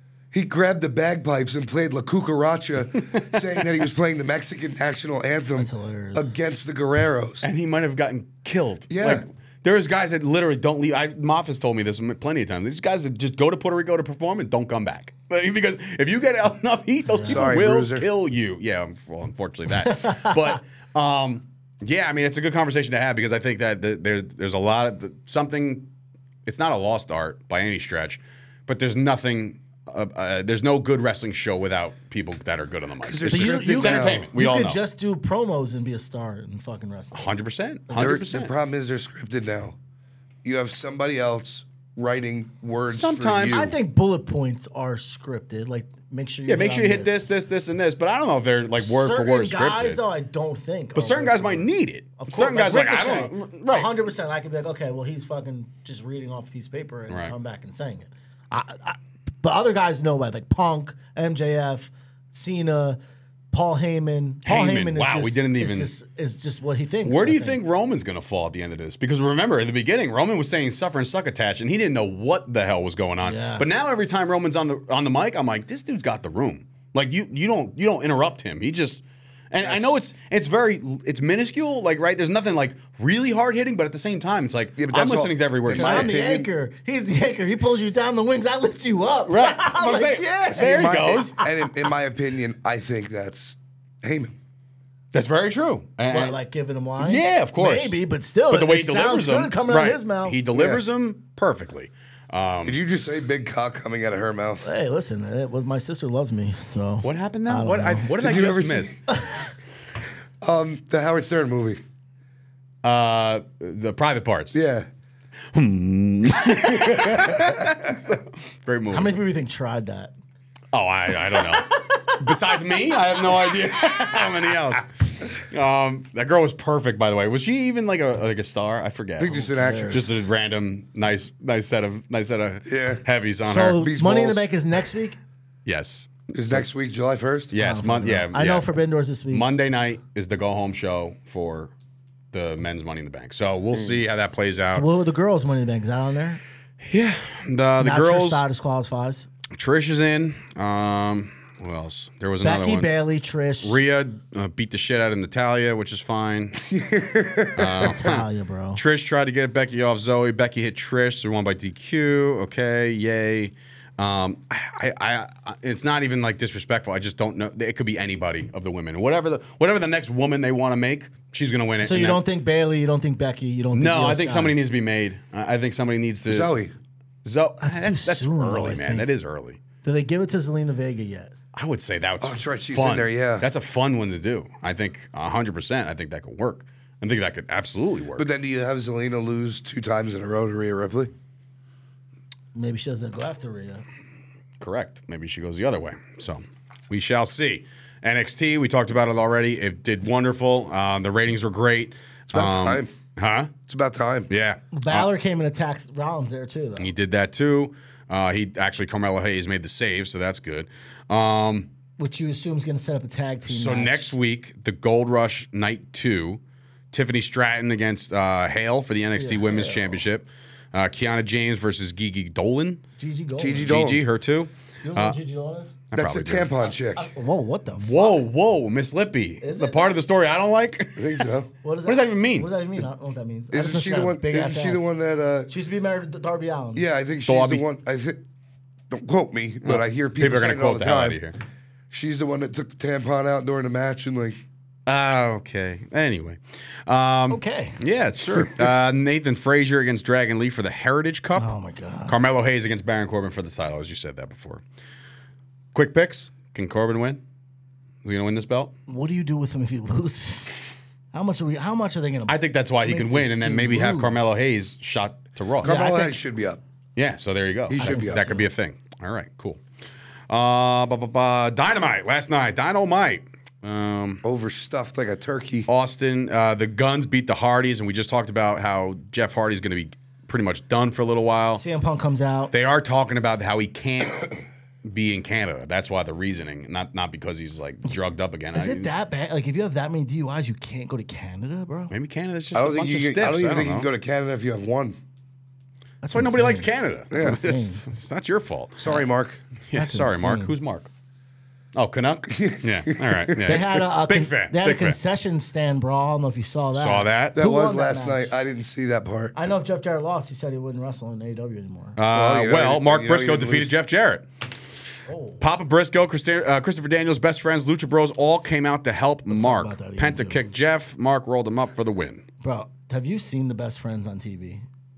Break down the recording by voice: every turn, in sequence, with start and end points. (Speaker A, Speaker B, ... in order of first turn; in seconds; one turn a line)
Speaker A: 0.3-7.5
Speaker B: 5.6-6.3
Speaker C: 7.4-25.9
Speaker A: 8.9-9.2
Speaker B: 17.1-17.5
Speaker A: 17.3-18.1
Speaker B: 19.9-20.4
Speaker C: 26.5-34.8
Speaker A: 33.0-34.3
Speaker B: 33.3-37.3
Speaker C: 37.1-38.5
Speaker B: 37.9-38.2
Speaker A: 37.9-39.8
Speaker A: 40.4-43.7
Speaker C: 42.9-43.7
Speaker B: 43.5-47.3
Speaker C: 46.5-50.0
Speaker B: 48.8-63.0
Speaker C: 51.0-53.9
Speaker B: 63.5-67.6
Speaker C: 64.5-65.9
Speaker C: 67.0-86.2
Speaker B: 73.2-73.7
Speaker A: 79.6-80.0
Speaker A: 84.8-86.5
Speaker B: 85.7-91.5
Speaker C: 89.3-91.4
Speaker A: 90.6-94.4
Speaker C: 95.1-96.4
Speaker B: 96.1-100.4
Speaker C: 97.0-98.0
Speaker C: 98.5-102.8
Speaker A: 100.5-100.8
Speaker A: 102.7-104.7
Speaker B: 104.6-108.1
Speaker C: 107.0-109.0
Speaker A: 108.2-109.0
Speaker B: 109.1-109.5
Speaker A: 110.4-111.8
Speaker C: 112.8-114.6
Speaker A: 114.5-114.9
Speaker C: 115.5-119.2
Speaker A: 116.5-117.7
Speaker B: 118.9-120.1
Speaker C: 120.7-133.9
Speaker B: 121.3-122.2
Speaker A: 129.2-130.2
Speaker B: 129.6-130.1
Speaker A: 132.7-133.0
Speaker B: 133.5-135.2
Speaker A: 133.8-134.5
Speaker C: 135.7-136.6
Speaker A: 136.3-137.5
Speaker C: 137.5-138.7
Speaker B: 137.6-139.5
Speaker C: 139.3-141.7
Speaker C: 142.3-144.9
Speaker B: 144.7-146.4
Speaker C: 146.8-148.4
Speaker B: 147.8-149.3
Speaker C: 149.5-152.9
Speaker B: 152.4-153.8
Speaker C: 153.6-156.6
Speaker A: 156.6-157.9
Speaker C: 157.6-172.2
Speaker B: 157.8-158.8
Speaker B: 171.8-174.6
Speaker C: 173.7-176.5
Speaker A: 176.3-176.7
Speaker C: 177.2-179.6
Speaker B: 177.6-179.1
Speaker B: 179.8-181.3
Speaker C: 181.5-188.3
Speaker A: 182.2-183.5
Speaker A: 188.2-191.1
Speaker B: 192.6-193.8
Speaker C: 194.6-203.5
Speaker A: 202.3-202.9
Speaker A: 203.7-204.3
Speaker C: 204.3-205.1
Speaker B: 204.7-206.9
Speaker C: 206.8-211.7
Speaker B: 212.0-214.1
Speaker C: 213.5-216.4
Speaker C: 216.9-222.8
Speaker B: 219.2-220.0
Speaker B: 223.0-223.8
Speaker A: 223.4-224.0
Speaker C: 223.6-225.2
Speaker B: 224.8-225.8
Speaker C: 225.9-226.5
Speaker A: 225.9-227.1
Speaker B: 226.9-228.2
Speaker C: 227.8-231.3
Speaker B: 229.4-230.0
Speaker A: 231.0-231.5
Speaker B: 231.6-234.9
Speaker C: 231.9-232.5
Speaker A: 233.5-235.5
Speaker B: 235.5-236.9
Speaker A: 236.8-238.2
Speaker C: 237.3-237.6
Speaker A: 238.9-241.2
Speaker C: 239.7-241.4
Speaker A: 241.9-244.4
Speaker C: 244.9-251.5
Speaker B: 247.3-247.8
Speaker B: 251.4-252.2
Speaker C: 252.1-254.6
Speaker C: 255.7-257.2
Speaker C: 258.0-258.7
Speaker B: 258.9-264.3
Speaker C: 262.3-265.8
Speaker A: 265.6-266.6
Speaker B: 265.6-266.2
Speaker C: 267.0-269.6
Speaker A: 267.7-268.4
Speaker B: 267.8-268.5
Speaker C: 270.3-274.2
Speaker A: 274.2-275.7
Speaker C: 275.7-281.6
Speaker B: 281.6-282.5
Speaker C: 282.5-288.9
Speaker B: 288.6-291.9
Speaker C: 291.9-293.9
Speaker A: 292.5-295.0
Speaker B: 296.0-297.8
Speaker C: 296.1-299.0
Speaker A: 297.1-297.4
Speaker A: 298.8-299.4
Speaker C: 299.7-300.9
Speaker B: 299.7-300.5
Speaker C: 301.8-305.0
Speaker A: 302.3-303.6
Speaker B: 303.4-308.3
Speaker C: 306.7-307.4
Speaker A: 307.4-309.4
Speaker B: 309.4-312.0
Speaker C: 312.0-314.3
Speaker A: 312.1-313.7
Speaker B: 315.1-315.4
Speaker C: 315.4-322.2
Speaker B: 319.3-320.4
Speaker B: 322.4-324.6